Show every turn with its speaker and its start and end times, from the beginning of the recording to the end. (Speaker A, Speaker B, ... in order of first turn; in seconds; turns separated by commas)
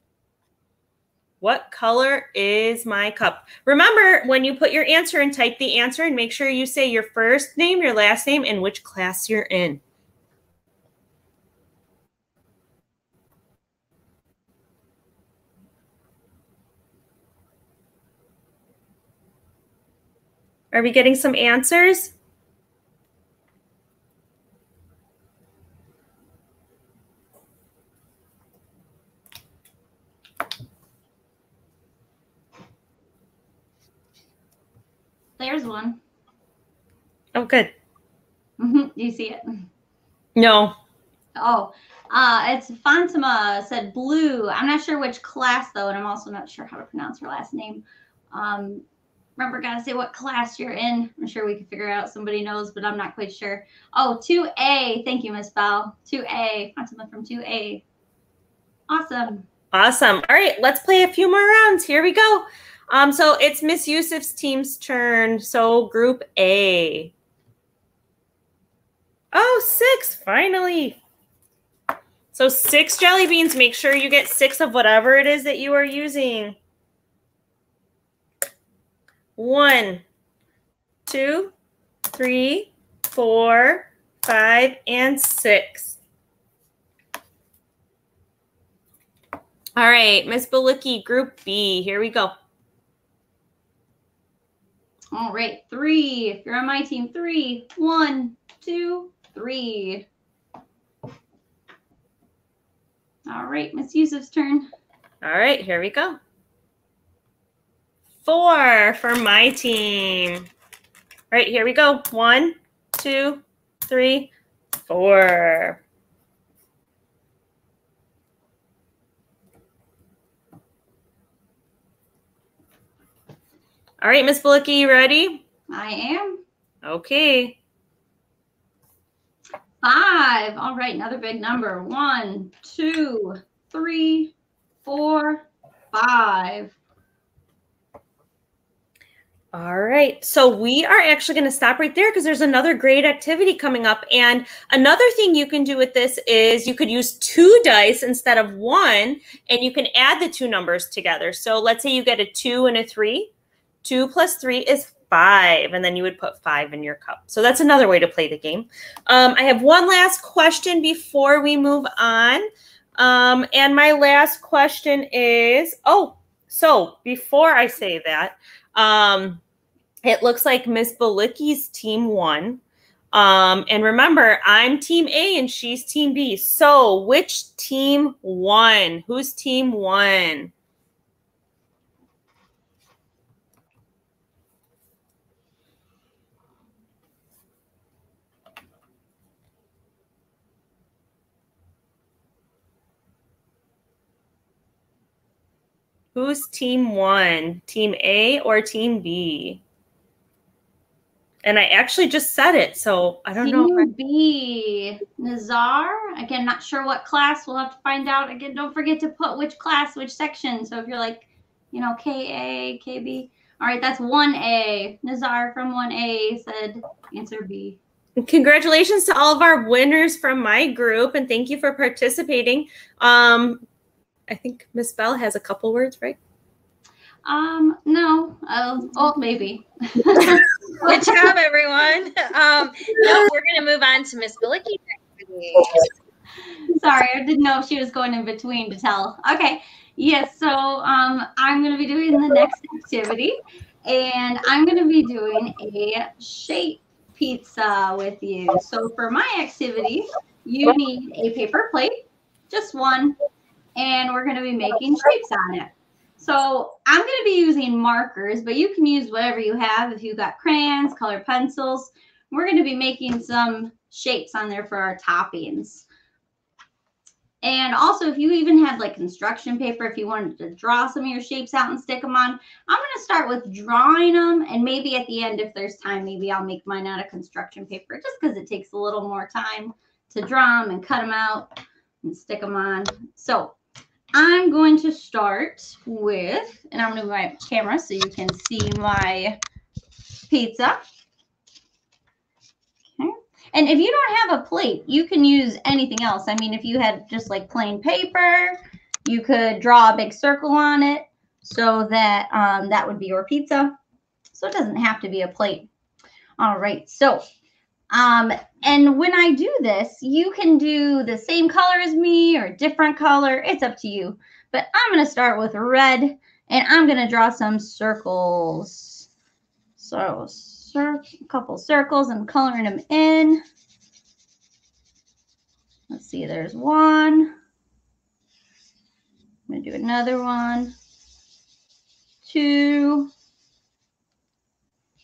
Speaker A: 1.4-9.8, Speaker A: 20.7-22.1, Speaker B: 35.4-36.0, Speaker A: 37.3-37.7, Speaker B: 38.6-39.6, Speaker A: 40.4-40.7, Speaker B: 41.4-48.8, Speaker B: 49.4-57.8, Speaker B: 58.9-59.5, Speaker A: 59.7-67.1, Speaker A: 69.3-71.0, Speaker A: 72.3-76.6, Speaker A: 79.4-80.0, Speaker A: 81.1-81.5, Speaker A: 82.1-86.0, Speaker A: 89.8-92.3, Speaker B: 95.1-100.0, Speaker B: 103.2-104.7, Speaker A: 105.2-106.2, Speaker A: 108.2-110.5, Speaker A: 111.3-114.3, Speaker A: 114.9-115.8, Speaker A: 124.0-125.4, Speaker B: 125.7-126.4, Speaker A: 126.8-127.5, Speaker B: 129.8-134.3, Speaker B: 134.8-136.7, Speaker A: 139.5-153.3, Speaker A: 153.8-169.4, Speaker A: 170.0-172.6, Speaker A: 173.1-180.5, Speaker A: 196.1-199.6, Speaker A: 201.4-203.9, Speaker B: 203.4-217.8, Speaker A: 218.2-223.6, Speaker A: 224.3-226.2, Speaker B: 227.2-230.9, Speaker C: 230.8-235.7, Speaker B: 236.7-253.1, Speaker B: 253.8-265.8, Speaker B: 267.4-281.5, Speaker B: 282.0-283.5, Speaker B: 284.1-289.4, Speaker B: 290.3-290.8, Speaker B: 293.0-303.7, Speaker B: 304.3-305.7, Speaker B: 306.4-307.2, Speaker B: 307.9-319.1, Speaker B: 319.8-323.4, Speaker B: 325.9-327.3, Speaker B: 329.5-330.7, Speaker B: 332.2-333.1